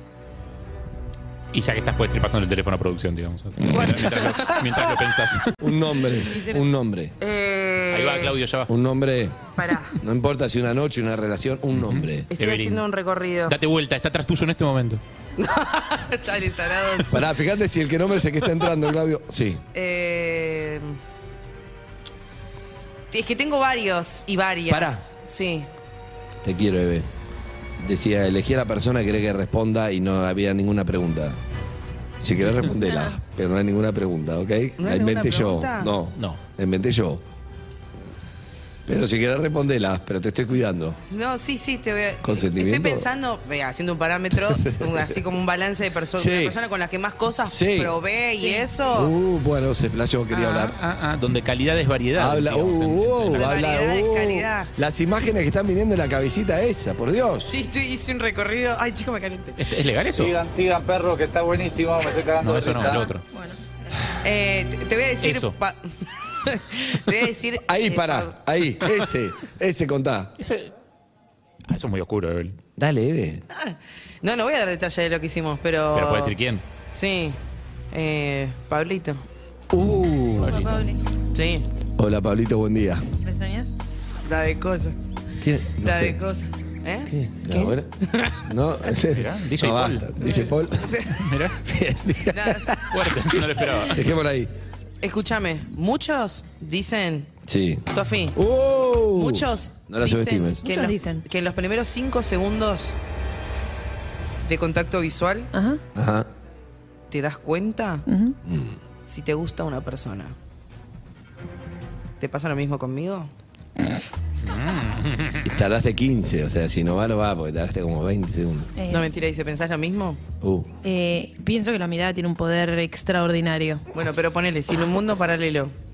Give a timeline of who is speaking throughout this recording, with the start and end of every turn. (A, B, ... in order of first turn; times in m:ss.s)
0:01.5-0:05.6 A
0:03.7-0:04.6 B
0:05.6-0:07.2 C
0:06.3-0:06.6 D
0:07.2-0:08.3 B
0:07.9-0:08.7 A
0:08.7-0:09.4 C
0:09.6-0:10.0 B
0:10.0-0:12.3 C
0:11.8-0:12.8 A
0:12.3-0:13.6 B
0:13.5-0:15.0 A
0:15.4-0:17.3 B
0:17.1-0:19.6 C
0:19.7-0:21.0 B
0:23.1-0:25.7 B
0:24.7-0:25.0 C
0:26.4-0:27.1 C
0:27.8-0:31.4 C
0:32.2-0:37.2 C
0:32.9-0:33.1 D
0:34.8-0:35.9 B
0:38.9-0:41.0 C
0:41.1-0:49.1 B
0:42.2-0:43.1 C
0:44.3-0:45.2 C
0:46.2-0:46.6 C
0:47.4-0:48.0 C
0:48.4-0:48.7 D
0:48.9-0:50.8 C
0:50.3-0:53.5 A
0:52.2-0:57.5 C
0:53.3-0:54.7 B
0:57.5-0:59.6 B
0:59.6-1:00.4 A
1:00.2-1:03.0 E
1:02.4-1:03.2 A
1:02.8-1:03.6 D
1:04.2-1:05.8 B
1:05.2-1:05.5 A
1:06.4-1:08.3 B
1:07.6-1:10.3 C
1:10.4-1:10.7 A
1:11.7-1:12.6 A
1:12.8-1:13.4 C
1:13.5-1:16.4 B
1:15.9-1:16.6 A
1:16.9-1:17.4 B
1:17.9-1:19.2 B
1:19.7-1:20.8 C
1:20.4-1:20.7 A
1:20.4-1:21.0 D
1:21.3-1:21.7 B
1:22.0-1:23.0 C
1:23.2-1:23.7 D
1:24.2-1:25.0 B
1:25.4-1:26.2 C
1:25.8-1:28.4 B
1:27.1-1:27.9 C
1:28.4-1:31.0 C
1:29.1-1:30.4 A
1:30.8-1:31.2 B
1:31.1-1:31.6 A
1:31.6-1:34.5 C
1:32.3-1:32.7 B
1:32.9-1:34.0 A
1:35.0-1:37.3 B
1:37.4-1:40.6 C
1:37.9-1:38.4 B
1:39.2-1:43.0 B
1:40.6-1:41.2 D
1:44.5-1:45.5 B
1:45.5-1:45.8 D
1:46.0-1:46.3 C
1:47.1-1:48.0 B
1:48.1-1:48.4 D
1:48.4-1:48.8 C
1:49.1-1:50.4 B
1:52.2-1:53.3 B
1:54.4-1:55.5 A
1:55.4-1:58.7 C
1:58.8-1:59.1 D
1:58.9-2:00.2 B
2:00.4-2:00.7 C
2:00.8-2:03.8 D
2:03.9-2:05.7 B